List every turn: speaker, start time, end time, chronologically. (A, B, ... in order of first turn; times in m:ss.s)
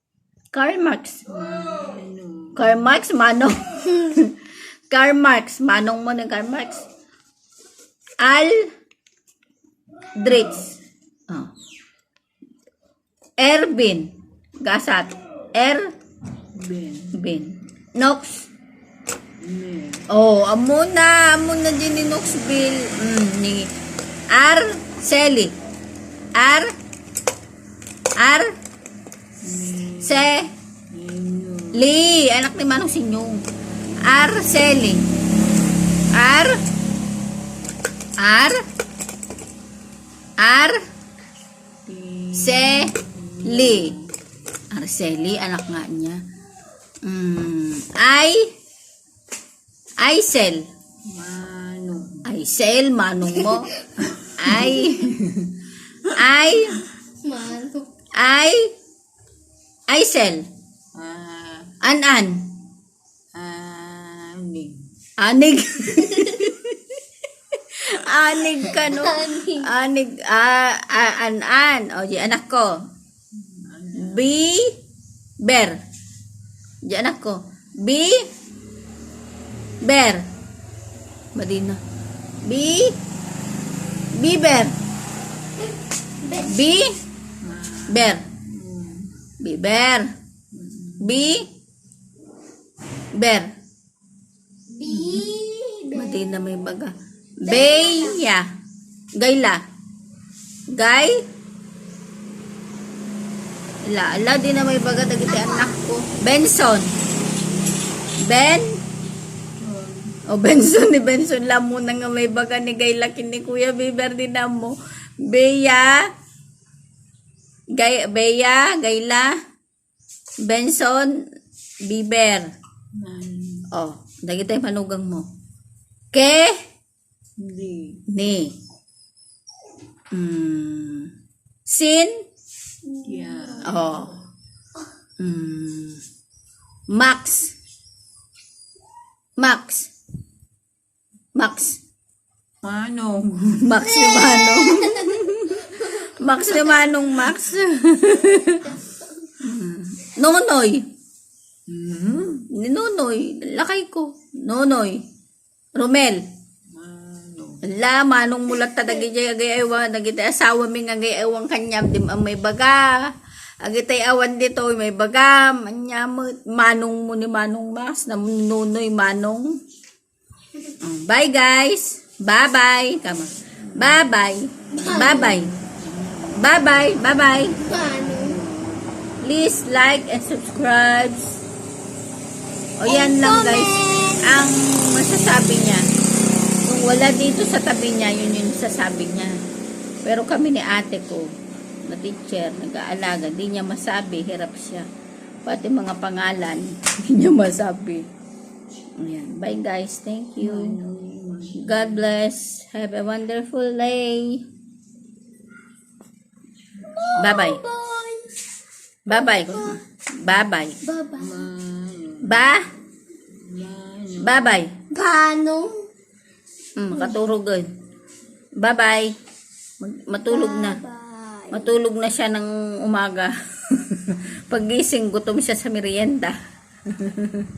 0:00.5-0:01.2 A
0:01.3-0:02.8 B
0:02.6-0:04.4 A
0:04.9-0:06.9 A
0:08.2-0:08.7 A
0:10.2-0:11.5 A
0:13.4-0:14.1 A
0:14.6-0:15.9 A
0:16.5-0:17.1 B
0:17.1-0:18.5 A
0:19.4-0:20.0 B
0:20.1-0:23.7 A
0:24.3-0:25.5 A
0:26.4-0:26.7 A
0:28.2-0:28.5 A
0:29.4-0:30.4 B
0:30.0-0:30.5 A
0:30.9-0:31.8 B
0:31.7-0:33.4 A
0:34.0-0:35.0 A
0:36.1-0:36.6 A
0:38.2-0:38.6 A
0:40.4-0:40.8 A
0:41.8-0:44.1 B
0:42.4-0:42.9 A
0:43.5-0:43.9 A
0:44.7-0:46.2 A
0:47.0-0:48.5 A
0:50.0-0:50.6 A
0:51.1-0:52.3 B
0:52.2-0:53.8 A
0:54.0-0:55.5 B
0:54.4-0:55.2 A
0:56.2-0:56.8 A
0:57.2-0:57.9 C
0:58.2-0:58.7 A
0:59.9-1:00.4 A
1:00.9-1:01.7 B
1:01.8-1:02.4 A
1:03.3-1:04.8 B
1:05.2-1:06.8 A
1:07.7-1:12.7 A
1:08.8-1:09.7 C
1:13.3-1:14.2 B
1:14.0-1:14.7 A
1:15.4-1:15.8 A
1:16.8-1:18.2 A
1:19.8-1:20.2 A
1:21.3-1:21.8 A
1:22.4-1:23.0 A
1:24.2-1:24.7 A
1:26.2-1:26.5 C
1:26.4-1:26.9 A
1:27.4-1:29.1 B
1:27.9-1:28.2 A
1:29.4-1:30.1 A
1:30.5-1:31.2 B
1:31.0-1:31.5 A
1:33.2-1:33.5 A
1:34.7-1:36.5 C
1:34.9-1:35.3 B
1:35.9-1:38.5 A
1:37.4-1:38.2 C
1:39.2-1:39.6 A
1:40.7-1:41.2 A
1:43.8-1:46.9 A
1:45.4-1:45.8 C
1:48.2-1:48.8 A
1:49.6-1:50.2 B
1:50.3-1:56.1 A
1:57.8-1:59.3 A
2:00.5-2:01.2 A
2:01.8-2:02.5 A
2:03.0-2:03.7 B
2:03.7-2:05.3 A
2:06.1-2:06.5 A
2:07.4-2:08.0 B
2:08.1-2:08.5 A
2:10.1-2:11.1 A
2:11.7-2:12.2 A
2:12.9-2:13.6 C
2:13.0-2:14.1 B
2:13.6-2:14.2 A
2:15.2-2:16.0 A
2:16.9-2:17.5 A
2:19.4-2:19.9 A
2:21.3-2:21.8 A
2:22.6-2:23.9 B
2:23.6-2:28.8 A
2:23.9-2:26.1 C
2:29.4-2:30.8 A
2:31.7-2:32.5 B
2:32.5-2:35.0 A
2:35.8-2:36.2 A
2:36.7-2:37.7 B
2:37.6-2:49.6 A
2:50.8-2:55.5 A
2:53.7-2:54.0 B
2:54.7-2:55.4 C
2:55.2-2:56.5 B
2:56.3-2:57.6 A
2:57.6-2:58.4 C
2:57.8-2:59.0 B
2:59.2-3:01.4 A
3:02.8-3:05.8 A
3:02.8-3:04.5 C
3:06.7-3:09.4 A
3:10.0-3:11.3 A
3:11.8-3:14.8 A
3:15.4-3:18.0 A
3:19.0-3:20.8 A
3:20.4-3:22.0 B
3:21.6-3:24.4 A
3:26.9-3:28.4 C
3:27.2-3:27.6 A
3:29.1-3:30.8 A
3:29.1-3:29.8 C
3:30.8-3:31.5 C
3:31.2-3:32.4 B
3:32.2-3:32.7 A
3:33.3-3:34.6 B
3:34.2-3:34.7 A
3:34.9-3:35.9 C
3:36.8-3:37.7 A
3:38.6-3:39.1 A
3:39.8-3:40.8 A
3:40.3-3:41.7 C
3:41.5-3:46.4 A
3:47.0-3:47.2 A